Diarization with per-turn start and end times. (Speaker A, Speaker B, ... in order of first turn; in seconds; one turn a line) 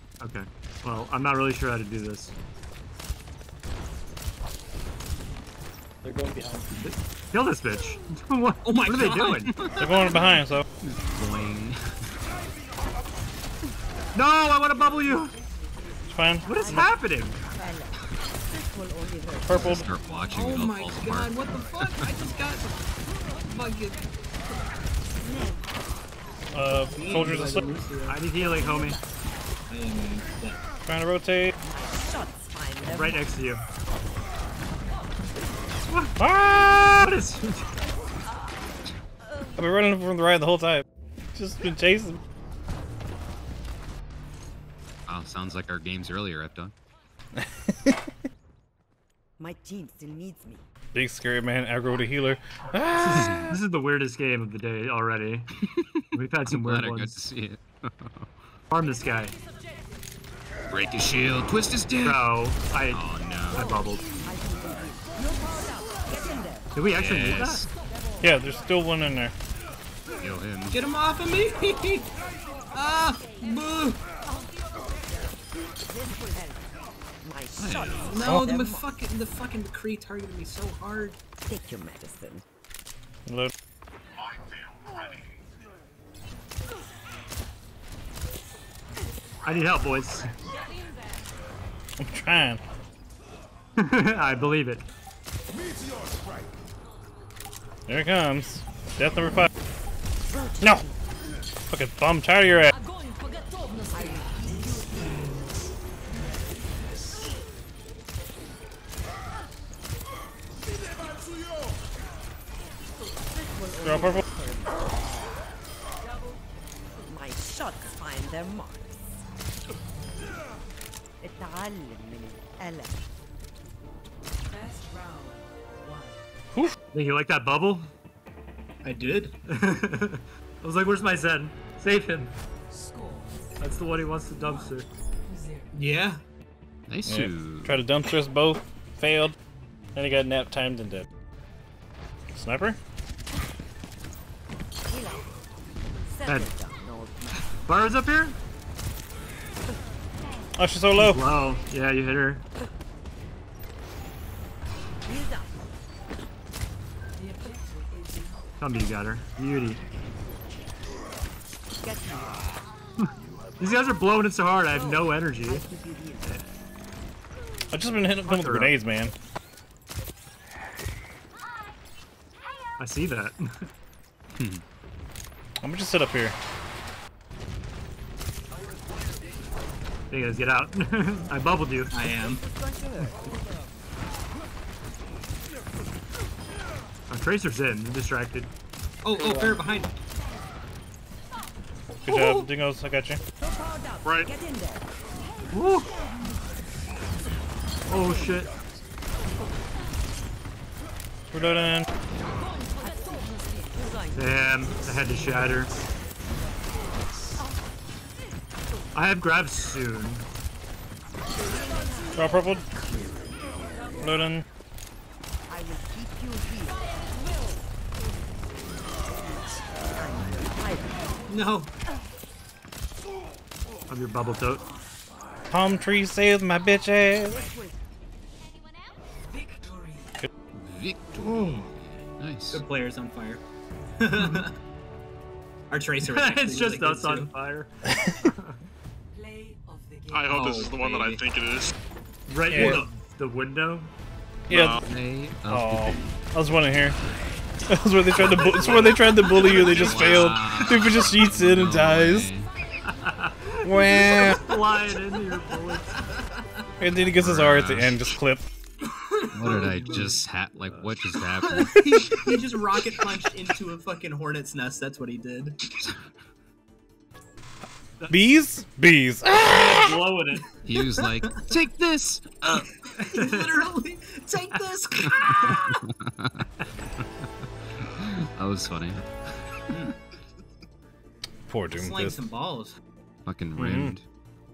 Speaker A: 0.2-2.3
Speaker A: 6.0-9.5
Speaker B: 8.6-9.4
Speaker C: 9.4-11.8
Speaker D: 9.8-10.6
Speaker A: 14.1-15.3
Speaker D: 16.1-16.8
Speaker A: 16.4-17.4
Speaker E: 16.5-17.0
Speaker E: 17.6-17.9
Speaker E: 18.5-19.6
Speaker D: 19.4-19.9
Speaker C: 19.5-22.1
Speaker B: 20.3-22.7
Speaker B: 23.4-24.1
Speaker E: 25.2-25.6
Speaker D: 26.5-27.6
Speaker B: 26.9-28.2
Speaker A: 28.1-29.0
Speaker B: 29.7-30.6
Speaker D: 30.9-31.5
Speaker E: 31.7-33.2
Speaker A: 32.9-33.6
Speaker A: 35.9-36.2
Speaker D: 36.2-37.0
Speaker A: 36.9-37.7
Speaker D: 39.5-40.8
Speaker D: 41.3-42.2
Speaker C: 45.1-46.7
Speaker D: 47.4-48.0
Speaker E: 49.4-50.6
Speaker D: 50.9-53.5
Speaker A: 53.0-55.5
Speaker C: 53.2-53.5
Speaker C: 55.6-58.3
Speaker A: 56.1-57.2
Speaker A: 58.7-59.4
Speaker C: 60.7-62.3
Speaker A: 62.0-64.1
Speaker C: 62.8-63.8
Speaker E: 63.8-66.6
Speaker A: 66.7-67.7
Speaker C: 66.8-67.7
Speaker D: 68.2-69.3
Speaker C: 70.2-70.8
Speaker B: 70.7-72.1
Speaker B: 72.7-74.0
Speaker E: 75.9-76.6
Speaker E: 77.2-78.9
Speaker C: 77.6-78.2
Speaker B: 78.1-81.2
Speaker E: 81.5-82.4
Speaker D: 83.2-83.5
Speaker A: 89.4-90.3
Speaker D: 92.0-92.6
Speaker A: 93.8-94.8
Speaker D: 97.9-99.5
Speaker D: 100.6-100.9
Speaker D: 101.7-102.7
Speaker E: 113.5-114.9
Speaker D: 113.8-114.2
Speaker E: 117.0-119.2
Speaker E: 121.2-123.0
Speaker A: 126.9-127.9
Speaker B: 128.8-129.3
Speaker A: 129.5-132.3
Speaker A: 133.6-134.9
Speaker B: 135.7-136.2
Speaker C: 136.9-137.8
Speaker D: 137.1-139.3
Speaker D: 139.9-141.1
Speaker D: 142.3-142.8
Speaker E: 144.9-145.2
Speaker E: 146.1-147.4
Speaker A: 146.2-146.5
Speaker A: 147.6-148.3
Speaker D: 150.6-151.2
Speaker A: 150.9-152.4
Speaker E: 155.1-155.5
Speaker A: 158.6-159.8
Speaker E: 161.8-162.5
Speaker A: 163.6-165.7
Speaker E: 164.7-166.4
Speaker D: 167.7-169.1
Speaker A: 168.2-168.7
Speaker A: 172.8-173.7
Speaker C: 174.3-174.6
Speaker D: 175.6-176.3
Speaker A: 180.1-181.9
Speaker B: 181.9-182.4
Speaker E: 182.6-183.1
Speaker A: 187.1-188.5
Speaker B: 189.0-189.9
Speaker A: 189.1-189.6
Speaker D: 192.0-193.2
Speaker A: 192.1-192.5
Speaker E: 193.7-194.8
Speaker F: 194.0-194.3
Speaker A: 195.5-195.9
Speaker A: 197.9-198.5
Speaker D: 201.3-201.8
Speaker A: 204.1-205.7
Speaker A: 208.9-210.2
Speaker E: 211.7-212.2
Speaker D: 212.2-212.6
Speaker D: 214.0-214.4
Speaker E: 215.5-217.0
Speaker E: 219.4-221.2
Speaker B: 221.3-221.7
Speaker A: 223.9-224.6
Speaker D: 225.5-227.5
Speaker E: 227.4-227.8
Speaker C: 230.5-232.6
Speaker B: 231.3-231.6
Speaker B: 232.5-233.4
Speaker B: 234.0-234.5
Speaker B: 235.7-237.3
Speaker A: 236.0-238.6
Speaker F: 240.1-241.7
Speaker B: 240.3-241.2
Speaker A: 242.3-243.9
Speaker D: 242.4-242.8
Speaker B: 242.5-242.9
Speaker D: 244.5-244.8
Speaker F: 244.5-244.8
Speaker C: 244.5-246.2
Speaker D: 245.5-247.0
Speaker D: 247.7-252.3
Speaker A: 248.4-249.0
Speaker B: 248.6-249.4
Speaker C: 249.4-252.5
Speaker A: 252.9-256.0
Speaker D: 253.6-254.4
Speaker D: 256.8-258.4
Speaker C: 257.1-258.0
Speaker B: 258.9-260.1
Speaker C: 259.3-261.8
Speaker A: 259.7-260.1
Speaker B: 261.1-265.6
Speaker D: 261.7-262.4
Speaker D: 268.1-269.9
Speaker A: 269.5-270.6
Speaker C: 270.6-272.7
Speaker B: 270.7-271.4
Speaker B: 272.9-275.8
Speaker A: 273.0-273.6
Speaker C: 275.0-276.4
Speaker C: 277.9-279.7
Speaker D: 281.5-282.3
Speaker B: 281.7-282.8
Speaker C: 283.2-284.0
Speaker D: 283.6-283.9